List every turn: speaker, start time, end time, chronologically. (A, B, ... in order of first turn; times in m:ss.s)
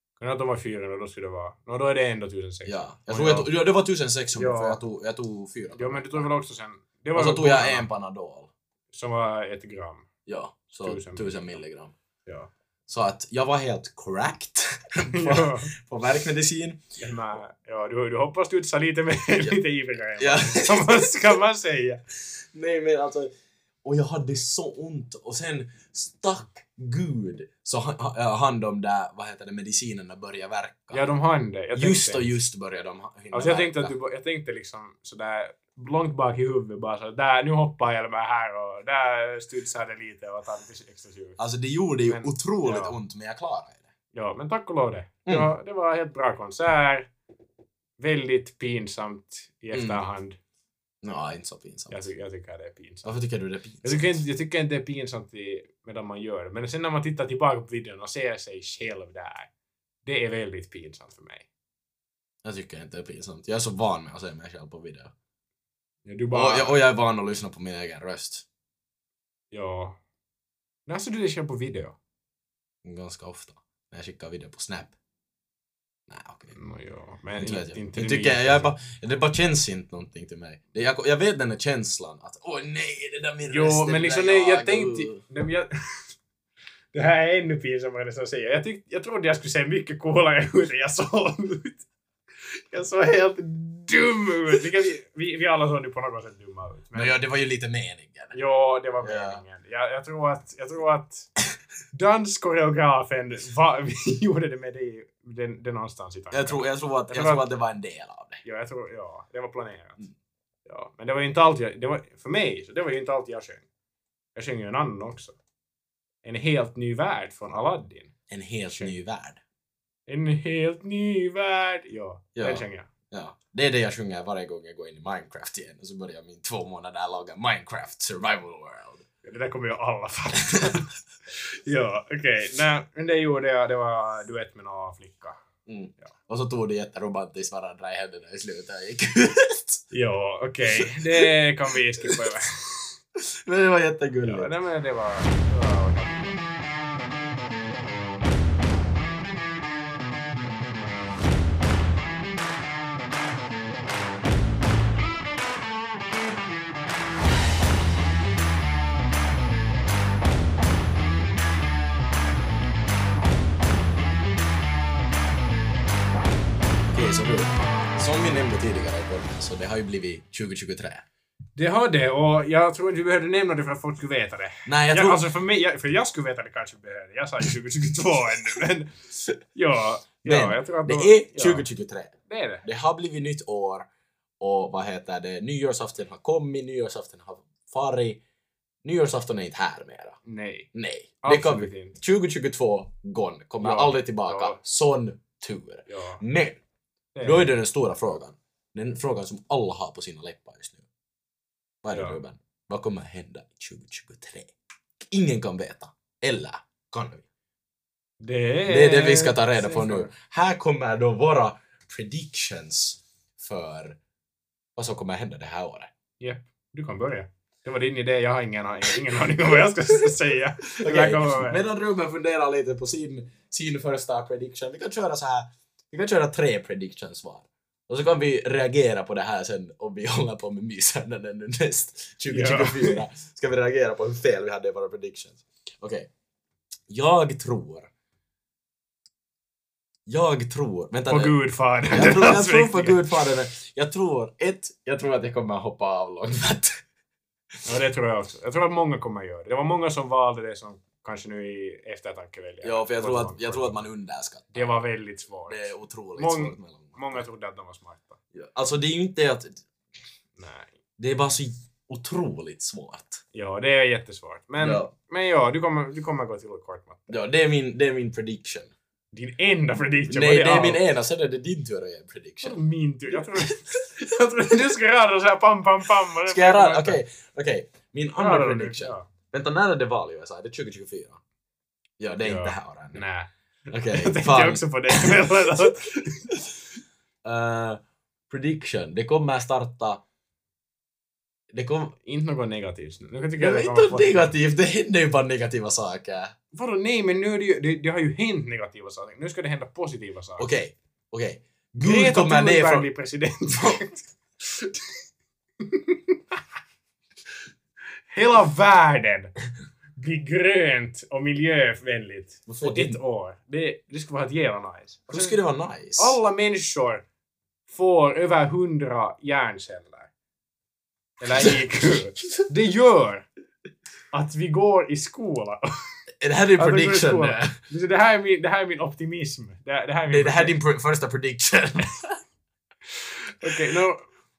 0:00.2-0:03.5 A
0:02.7-0:06.3 B
0:04.3-0:04.8 A
0:05.7-0:07.9 A
0:07.1-0:08.5 B
0:08.9-0:10.1 A
0:10.3-0:11.9 B
0:10.8-0:11.6 A
0:12.9-0:16.8 B
0:15.1-0:15.7 A
0:17.0-0:22.0 A
0:20.2-0:21.2 B
0:22.5-0:23.3 B
0:23.8-0:31.0 B
0:30.9-0:32.3 A
0:31.8-0:33.9 B
0:33.3-0:41.4 A
0:41.4-0:43.8 B
0:42.1-0:43.0 A
0:44.1-0:47.1 A
0:48.0-0:50.4 A
0:49.7-0:50.0 B
0:51.0-0:52.1 B
0:51.9-0:53.1 A
0:53.0-0:54.2 B
0:53.8-0:59.5 A
1:00.0-1:01.5 A
1:02.4-1:05.1 B
1:06.0-1:06.8 A
1:06.3-1:08.4 B
1:09.5-1:10.0 A
1:10.9-1:12.0 A
1:12.8-1:14.9 B
1:16.1-1:16.6 B
1:16.5-1:18.7 A
1:17.4-1:25.2 B
1:23.5-1:26.1 A
1:26.9-1:31.8 A
1:32.7-1:37.2 A
1:36.9-1:38.4 B
1:38.3-1:41.3 A
1:39.0-1:39.4 B
1:41.9-1:47.5 A
1:46.3-1:48.4 B
1:48.4-1:50.0 A
1:50.7-1:53.6 A
1:54.4-1:55.4 A
1:56.2-1:58.1 A
1:58.3-1:59.4 B
2:00.1-2:02.9 A
2:02.4-2:09.0 B
2:09.2-2:15.4 A
2:10.5-2:10.8 B
2:15.7-2:19.8 B
2:19.9-2:22.8 A
2:20.7-2:21.3 B
2:23.2-2:24.5 B
2:24.2-2:26.4 A
2:46.9-2:51.0 B
2:51.6-2:58.9 A
2:54.7-2:55.2 B
2:59.5-3:01.7 A
3:00.2-3:03.9 B
3:02.3-3:02.6 A
3:04.4-3:08.2 B
3:08.8-3:10.2 B
3:10.2-3:10.7 A
3:10.7-3:16.6 B
3:11.2-3:12.0 A
3:13.6-3:14.6 A
3:15.9-3:16.2 A
3:17.2-3:17.5 A
3:17.2-3:20.8 B
3:21.8-3:27.2 B
3:21.9-3:22.2 A
3:28.2-3:30.1 A
3:28.7-3:34.0 B
3:34.8-3:35.9 B
3:36.2-3:41.6 A
3:40.8-3:56.1 B
3:52.3-3:53.0 A
3:56.9-3:57.9 B
4:00.1-4:01.3 B
4:01.1-4:03.2 A
4:01.9-4:06.8 B
4:07.7-4:13.8 A
4:12.6-4:14.8 B
4:14.5-4:18.2 A
4:15.5-4:17.2 B
4:18.3-4:19.6 B
4:20.4-4:20.7 A
4:21.0-4:23.2 B
4:23.3-4:27.1 A
4:24.6-4:24.9 B
4:27.1-4:28.7 B
4:29.1-4:30.8 A
4:30.1-4:32.6 B
4:32.4-4:37.0 A
4:33.2-4:33.9 B
4:36.3-4:41.2 B
4:38.2-4:39.0 A
4:42.0-4:43.0 B
4:42.2-4:46.2 A
4:43.7-4:45.7 B
4:47.2-4:50.0 B
4:51.5-4:52.0 B
4:52.0-4:54.3 A
4:53.4-4:56.4 B
4:56.5-5:00.5 A
5:00.4-5:02.9 B
5:01.8-5:05.0 A
5:03.5-5:03.9 B
5:05.6-5:06.4 A
5:08.1-5:09.3 A
5:10.0-5:15.4 A
5:12.5-5:13.0 B
5:15.1-5:16.2 B
5:16.0-5:17.0 A
5:17.7-5:20.1 A
5:21.2-5:23.3 A
5:24.1-5:25.7 A
5:26.2-5:27.6 B
5:26.6-5:30.6 A
5:30.1-5:32.2 B
5:33.0-5:34.0 A